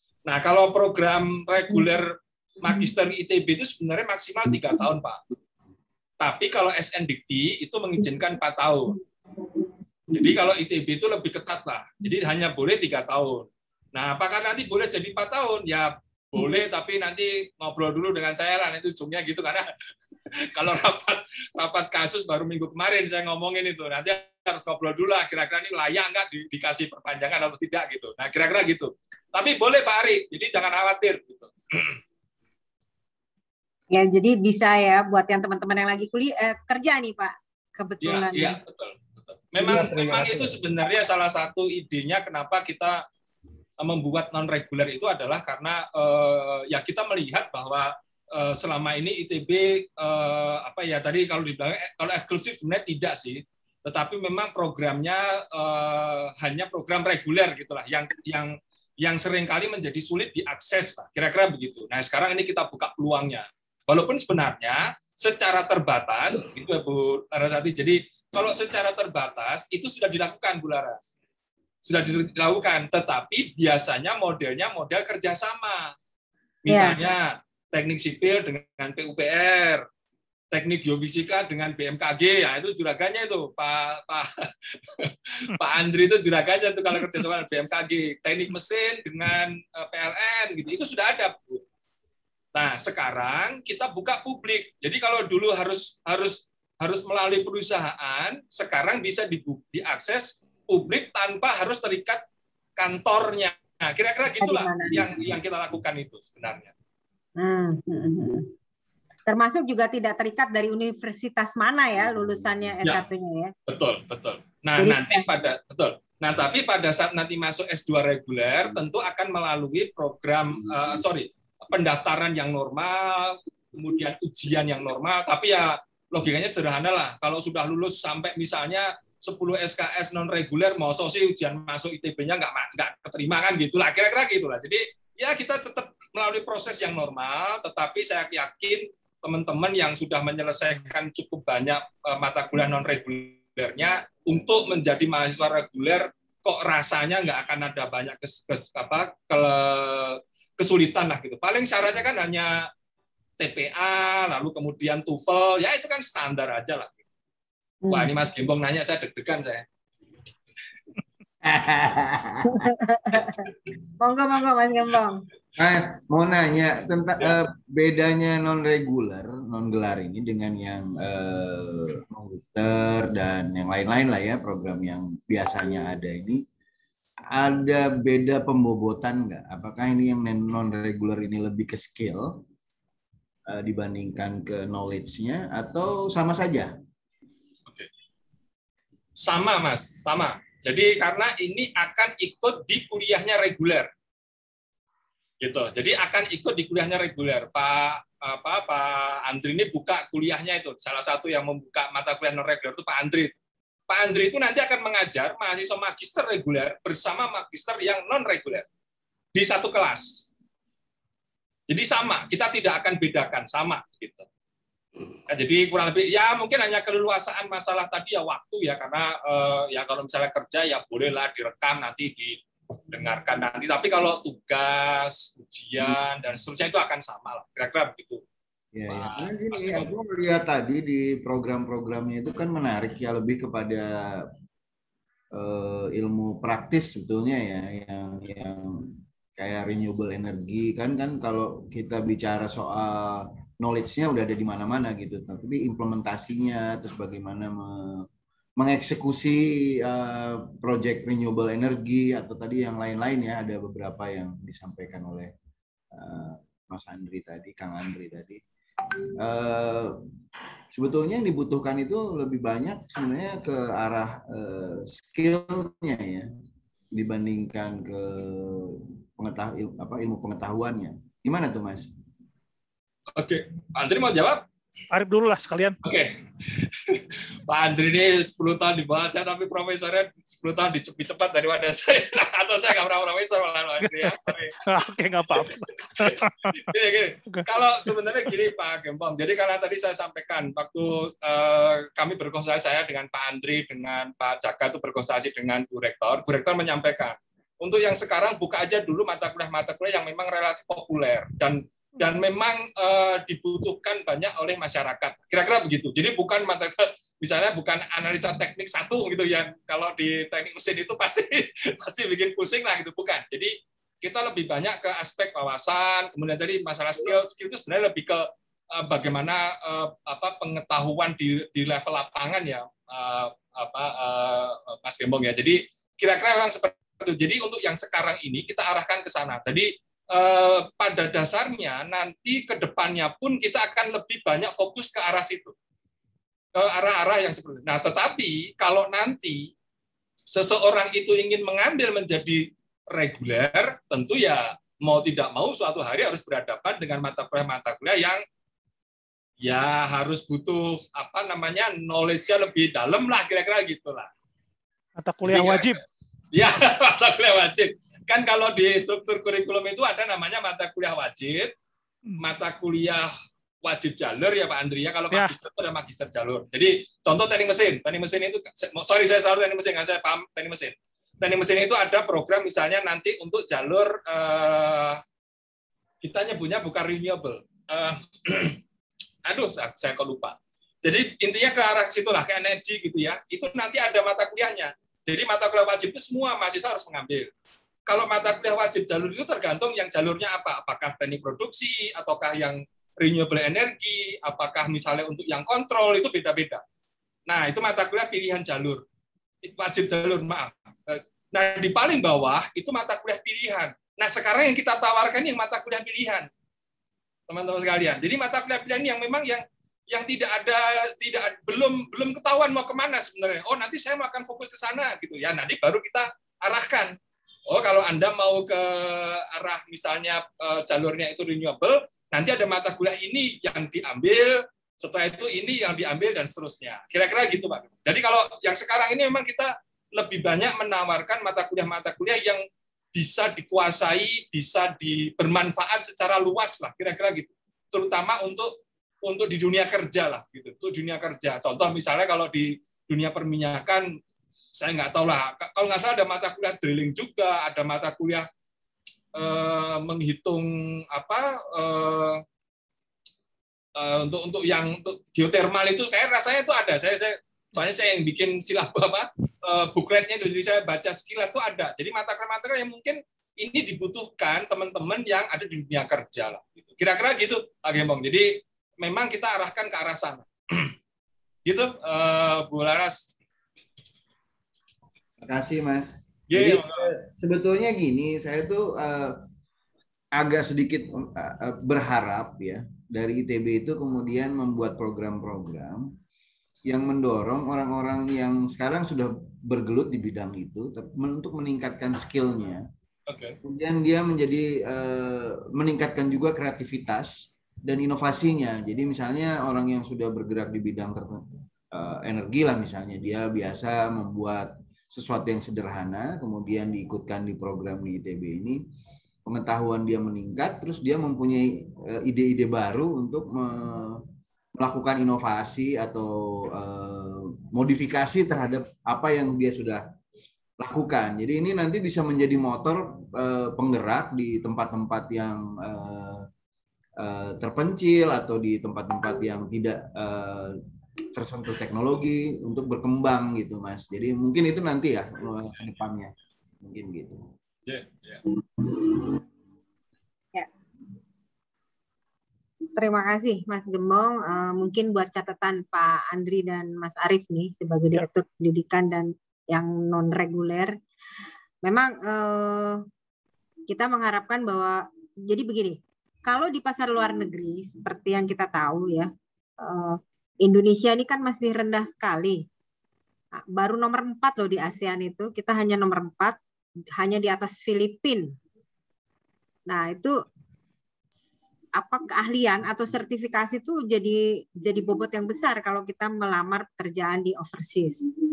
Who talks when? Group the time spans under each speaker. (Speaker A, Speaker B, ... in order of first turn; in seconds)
Speaker A: 0.2-5.2, 6.2-8.9, 10.1-19.7, 20.3-32.0, 38.0-43.0, 43.8-71.1, 71.8-75.9, 76.6-79.8, 80.5-91.6, 92.5-102.2, 102.8-106.7, 113.7-152.7, 153.4-157.0, 157.9-159.6, 189.2-193.9, 195.4-203.4, 203.9-208.6, 209.3-210.3, 211.7-214.2, 215.3-222.4, 222.9-228.2, 228.9-229.9, 273.1-274.4, 275.8-284.6, 285.3-335.5, 336.5-339.5, 340.3-348.2, 349.4-354.1, 355.3-355.8, 356.3-361.5, 362.2-363.1, 363.6-375.0, 376.0-378.6, 379.2-387.3, 387.9-396.6, 397.3-398.8, 399.4-406.3, 407.3-416.9, 417.5-432.4, 432.9-444.0, 444.5-448.3, 449.1-452.2, 453.8-470.7, 471.4-473.1, 476.3-476.9, 493.1-493.4, 537.6-538.2
Speaker B: 33.9-38.6, 76.7-77.0, 104.3-105.1, 107.4-108.5, 109.3-113.5, 114.8-115.2, 157.8-158.1, 162.4-163.5, 164.0-165.2, 542.8-550.7, 551.6-552.8, 553.7-559.1, 559.6-562.4, 563.5-566.4, 567.0-568.3, 569.7-570.1, 571.8-578.0
Speaker C: 161.4-162.7, 165.6-176.4, 177.3-182.4, 183.5-186.7, 228.7-234.3, 235.3-248.1, 248.6-255.3, 255.9-258.4, 259.2-260.0, 260.7-266.3, 266.9-271.9, 475.2-479.2, 480.1-485.9, 486.6-492.6, 493.4-508.6, 509.2-514.0, 514.6-519.8, 520.6-526.3, 527.0-530.6, 531.1-537.2
Speaker D: 274.9-275.8, 283.8-286.6, 287.3-287.9, 355.0-355.8